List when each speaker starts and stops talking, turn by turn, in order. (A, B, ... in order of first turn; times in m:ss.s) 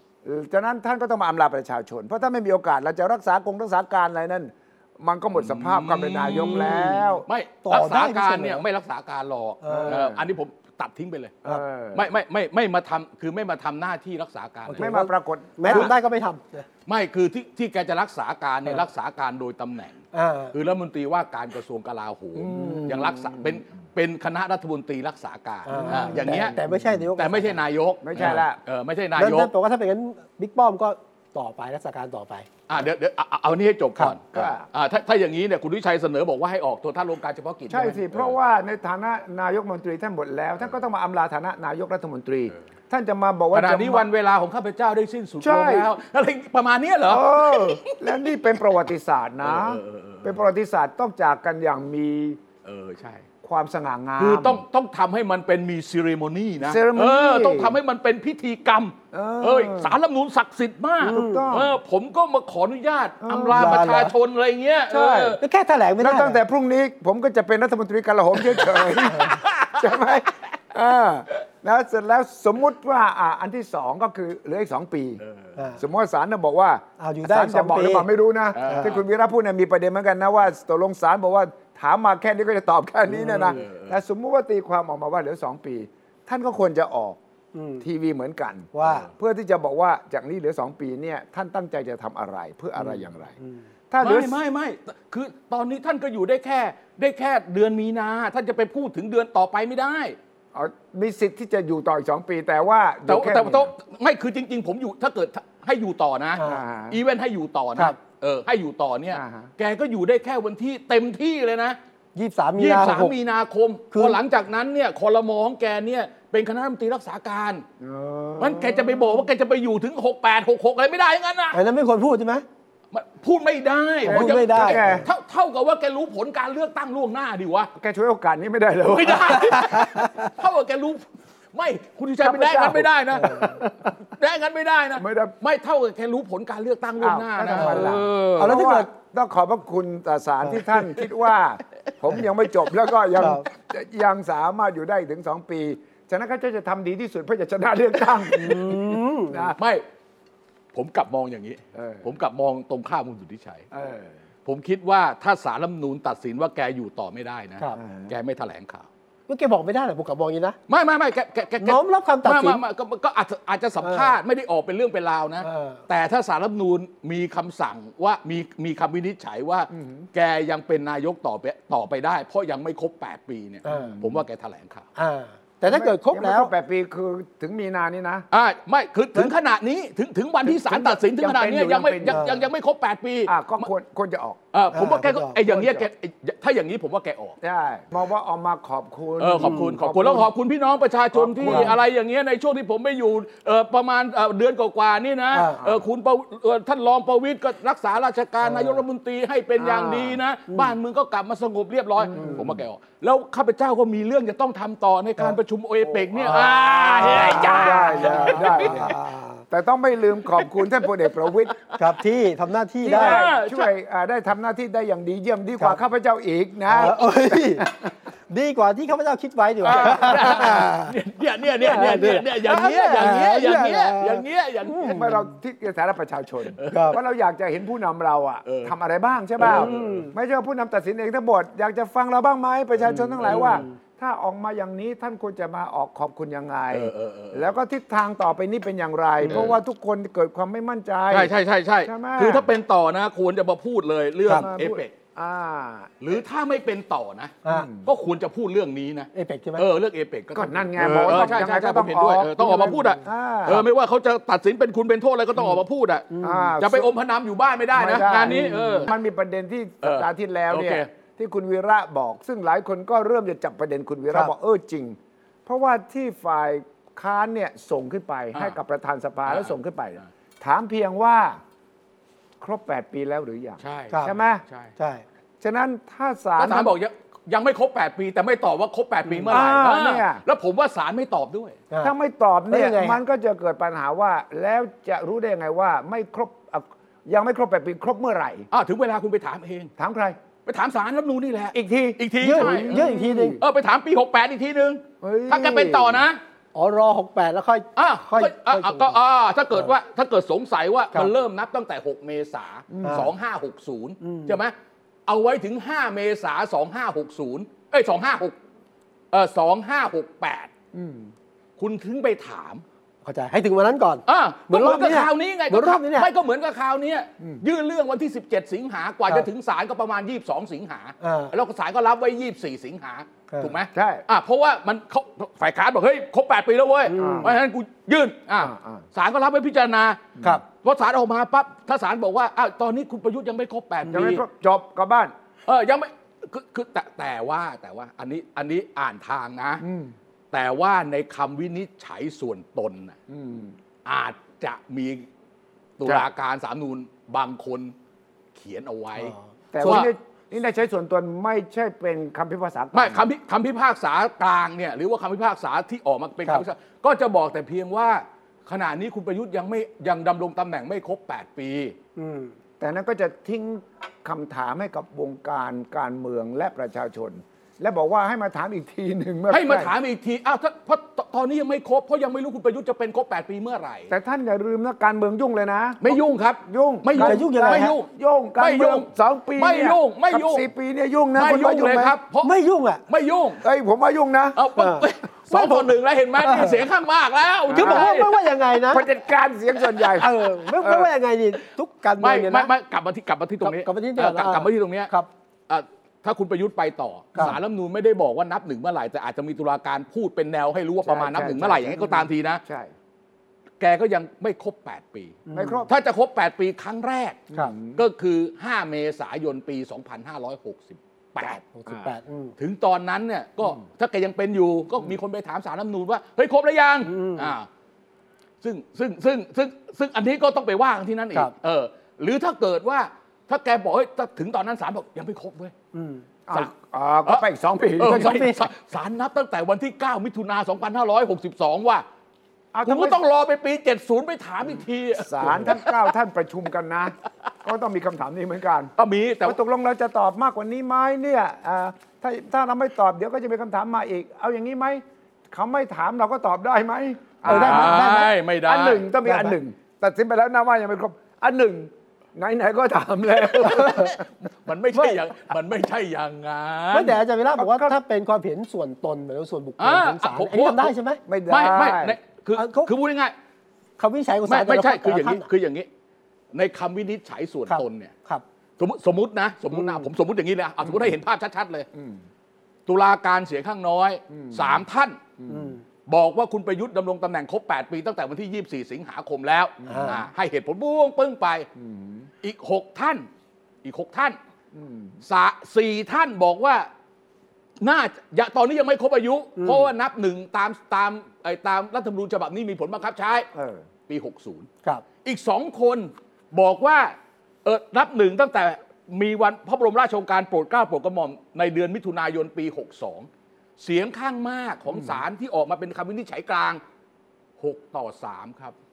0:00.2-0:07.2 A
0:05.4-0:14.9 B
0:07.6-0:08.6 C
0:09.6-0:10.0 C
0:09.7-0:10.2 A
0:11.4-0:12.1 A
0:14.6-0:16.7 C
0:14.8-0:15.9 A
0:15.7-0:15.9 B
0:16.8-0:20.0 B
0:20.1-0:20.5 C
0:20.5-0:26.6 B
0:22.4-0:23.6 A
0:25.6-0:27.6 C
0:25.8-0:26.8 A
0:27.2-0:29.5 B
0:28.0-0:28.6 A
0:29.2-0:32.5 C
0:32.7-0:38.3 B
0:34.3-0:34.6 A
0:37.7-0:44.1 A
0:43.5-0:48.0 B
0:45.4-0:45.9 A
0:47.1-0:52.4 A
0:49.4-0:50.4 B
0:52.6-0:53.2 B
0:53.4-0:54.6 A
0:54.2-1:05.4 B
0:56.6-0:57.8 A
0:59.1-1:00.0 A
1:01.0-1:01.7 A
1:01.0-1:01.4 C
1:03.2-1:03.8 A
1:03.5-1:04.1 C
1:04.9-1:05.4 A
1:05.4-1:06.4 C
1:06.0-1:15.2 A
1:09.1-1:09.9 B
1:15.2-1:15.6 B
1:15.8-1:27.2 A
1:17.0-1:18.1 C
1:18.5-1:19.0 B
1:18.6-1:18.9 C
1:23.1-1:23.6 C
1:23.4-1:24.0 B
1:27.5-1:27.8 C
1:27.8-1:33.3 A
1:28.7-1:29.1 C
1:33.4-1:33.6 C
1:33.9-1:34.4 A
1:34.0-1:40.2 B
1:40.5-1:43.7 A
1:43.1-1:51.8 B
1:46.4-1:46.6 C
1:46.4-1:47.0 A
1:49.1-1:49.5 A
1:52.1-1:53.1 C
1:52.6-1:57.6 B
1:53.9-1:54.2 C
1:57.8-1:59.2 A
1:58.4-2:01.6 B
2:01.5-2:02.4 C
2:02.9-2:07.7 B
2:04.0-2:05.0 C
2:04.0-2:05.1 A
2:07.7-2:09.8 A
2:08.9-2:18.6 B
2:09.5-2:10.3 C
2:12.2-2:12.9 A
2:13.1-2:13.6 C
2:15.0-2:15.3 A
2:17.0-2:29.6 A
2:17.5-2:18.9 C
2:23.2-2:23.5 C
2:28.3-2:29.5 C
2:29.6-2:29.8 B
2:30.7-2:33.7 B
2:31.7-2:32.1 A
2:33.7-2:34.2 A
2:34.4-2:38.9 B
2:37.7-2:38.1 A
2:39.3-2:40.6 C
2:40.7-2:54.9 B
2:41.6-2:42.6 C
2:43.8-2:44.1 C
2:45.4-2:45.8 C
2:49.7-2:50.1 A
2:53.6-2:54.2 A
2:53.7-2:54.0 C
2:55.0-2:56.5 C
2:55.6-2:58.2 A
2:58.3-3:03.7 B
3:00.4-3:02.3 A
3:02.0-3:02.4 C
3:03.2-3:04.4 A
3:04.5-3:07.4 B
3:04.7-3:05.6 C
3:05.5-3:05.8 A
3:07.4-3:10.3 A
3:09.2-3:29.0 B
3:09.4-3:09.7 C
3:11.1-3:11.8 A
3:11.4-3:11.7 C
3:15.3-3:15.6 C
3:15.6-3:15.9 A
3:18.4-3:18.8 C
3:19.6-3:20.2 A
3:20.5-3:20.7 C
3:22.0-3:22.6 A
3:22.2-3:22.4 C
3:25.8-3:29.0 A
3:27.1-3:29.4 C
3:29.5-3:31.5 A
3:30.4-3:30.8 B
3:31.8-3:33.3 C
3:32.8-3:37.9 A
3:32.8-3:33.7 B
3:36.7-3:37.7 C
3:38.3-3:40.9 C
3:39.6-3:45.1 B
3:39.6-3:40.6 A
3:41.6-3:45.3 C
3:44.9-4:02.5 A
3:46.6-3:47.0 B
3:46.7-3:47.0 C
3:48.4-3:48.7 B
3:49.4-3:49.8 B
3:49.4-3:50.1 C
3:52.9-3:53.6 B
3:53.2-3:53.7 C
3:56.7-3:57.5 B
3:59.3-3:59.6 B
4:01.1-4:04.9 B
4:04.3-4:06.2 A
4:06.0-4:18.9 B
4:07.5-4:07.9 A
4:09.1-4:09.7 C
4:10.3-4:13.6 A
4:16.1-4:16.5 C
4:16.2-4:16.9 A
4:17.7-4:31.4 A
4:18.2-4:18.9 C
4:19.8-4:20.9 B
4:29.3-4:30.0 B
4:32.4-4:34.4 A
4:33.6-4:34.7 B
4:34.8-4:35.0 C
4:35.4-4:36.7 A
4:36.4-4:41.6 B
4:39.1-4:39.3 C
4:39.3-4:40.2 A
4:41.8-4:48.5 A
4:42.5-4:43.0 C
4:48.5-4:49.7 B
4:49.8-4:50.2 A
4:50.4-4:56.2 B
4:51.5-4:53.4 A
4:52.2-4:53.4 C
4:55.0-4:56.0 A
4:56.5-4:59.0 C
4:57.8-5:04.5 B
5:02.7-5:03.1 A
5:04.0-5:04.4 C
5:05.1-5:08.3 B
5:09.1-5:10.5 B
5:10.7-5:11.1 A
5:11.6-5:12.6 B
5:13.0-5:16.1 C
5:14.1-5:34.2 B
5:21.0-5:21.3 C
5:23.7-5:24.0 A
5:26.9-5:27.3 C
5:27.0-5:27.4 A
5:28.4-5:28.8 A
5:33.9-5:35.1 A
5:35.4-5:39.6 B
5:39.6-5:39.9 A
5:40.3-5:43.0 B
5:43.1-5:43.6 A
5:43.8-5:45.0 B
5:45.8-5:47.7 B
5:48.3-5:49.9 B
5:49.5-5:53.1 A
5:52.7-6:01.7 B
6:02.0-6:02.3 C
6:02.6-6:09.7 A
6:09.3-6:13.9 B
6:13.9-6:22.0 A
6:15.8-6:17.9 B
6:17.0-6:17.7 C
6:18.4-6:20.5 B
6:21.1-6:22.3 B
6:22.2-6:22.8 C
6:22.9-6:23.4 B
6:23.4-6:24.4 A
6:24.4-6:28.1 B
6:24.5-6:26.6 C
6:27.5-6:28.0 A
6:27.5-6:28.8 C
6:28.7-6:30.9 A
6:30.0-6:32.5 C
6:32.0-6:34.9 B
6:33.4-6:35.1 C
6:35.5-6:42.4 B
6:40.8-6:42.7 A
6:43.6-6:51.4 B
6:45.3-6:45.6 C
6:45.3-6:45.7 A
6:47.3-6:47.8 A
6:51.5-6:52.3 C
6:52.4-6:57.5 B
6:56.8-6:57.3 C
6:58.4-7:05.5 B
7:05.7-7:06.0 C
7:06.3-7:08.3 A
7:07.8-7:11.8 B
7:07.8-7:08.5 C
7:12.5-7:13.0 A
7:12.6-7:15.7 B
7:15.0-7:18.7 A
7:18.8-7:19.4 B
7:19.2-7:34.0 A
7:27.2-7:28.1 C
7:27.2-7:28.9 B
7:29.0-7:29.4 C
7:33.2-7:37.0 B
7:36.7-7:41.0 C
7:37.4-7:37.8 A
7:39.6-7:40.7 B
7:41.1-7:42.0 A
7:41.3-7:43.1 B
7:42.3-7:42.7 C
7:43.8-7:45.3 C
7:44.3-7:45.7 B
7:46.3-7:47.9 B
7:47.5-7:48.2 C
7:48.6-7:51.7 B
7:49.5-7:49.9 C
7:51.7-7:52.0 A
7:52.7-7:55.0 B
7:54.1-7:54.6 A
7:55.2-7:55.5 A
7:55.3-7:55.6 C
7:55.9-8:01.5 B
7:59.6-8:00.0 A
7:59.7-8:00.0 C
8:01.6-8:02.1 A
8:02.2-8:03.0 B
8:03.6-8:04.2 B
8:04.5-8:05.0 A
8:05.0-8:06.7 B
8:07.6-8:13.3 B
8:09.4-8:09.7 C
8:13.3-8:13.6 A
8:13.9-8:14.5 B
8:15.0-8:16.9 B
8:17.4-8:23.1 B
8:23.6-8:26.6 B
8:24.7-8:25.0 A
8:27.4-8:28.5 B